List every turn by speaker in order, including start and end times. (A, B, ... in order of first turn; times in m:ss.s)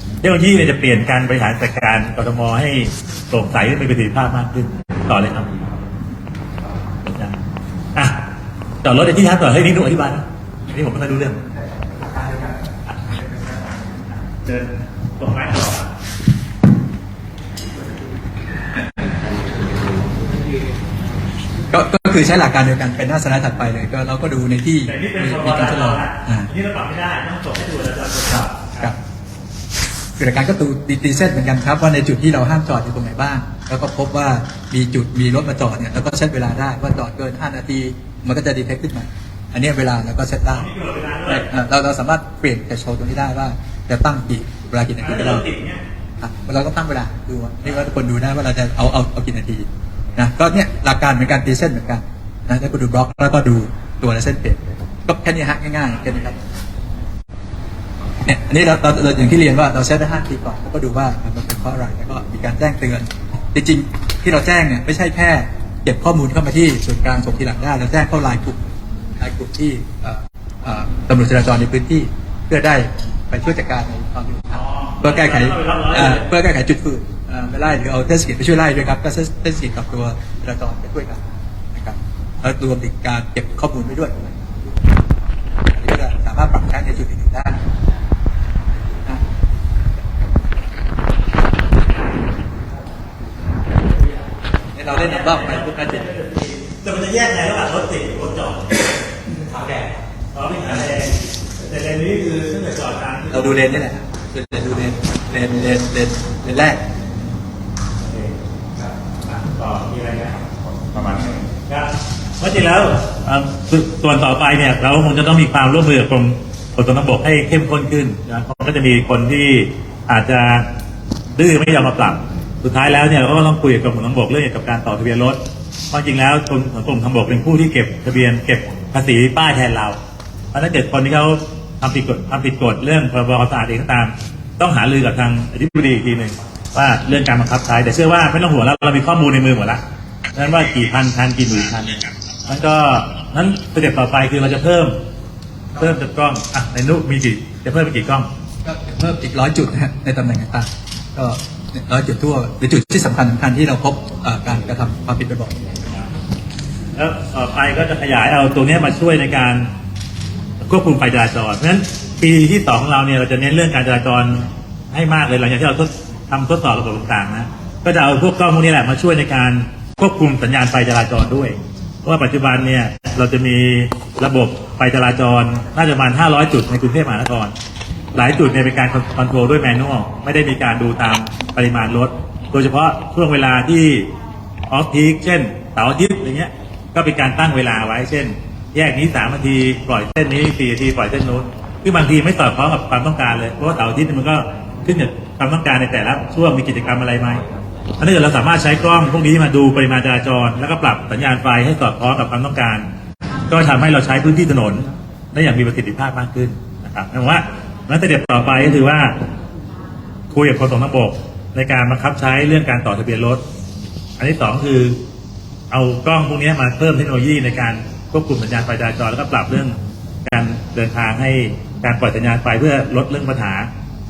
0:00.2-0:05.5 A
0:07.0-0:07.4 A
0:08.8-0:11.4 A
0:12.2-0:12.5 B
0:14.4-0:15.9 A
0:21.7-0:26.5 B
0:24.9-0:28.9 A
0:30.2-0:40.7 B
0:40.5-0:41.4 A
0:41.3-0:45.5 B
0:45.0-0:45.8 A
0:46.2-0:56.4 B
0:58.2-1:08.6 B
1:09.2-1:21.2 B
1:14.6-1:16.2 A
1:21.7-1:24.8 B
1:25.7-1:27.6 B
1:28.8-1:29.2 B
1:34.7-1:36.0 B
1:34.9-1:43.8 A
1:43.3-1:46.8 B
1:48.0-1:48.3 A
1:49.2-1:50.4 A
1:50.9-2:00.7 A
2:01.3-2:05.4 A
2:05.9-2:10.0 A
2:10.5-2:19.8 A
2:20.3-2:25.0 A
2:25.8-2:28.3 A
2:28.6-2:35.6 B
2:37.0-2:39.7 A
2:40.6-2:57.5 A
2:58.1-3:04.1 A
3:04.7-3:17.4 A
3:18.0-3:22.9 A
3:23.5-3:29.2 A
3:30.3-3:33.4 A
3:34.2-3:35.0 A
3:35.7-3:43.7 A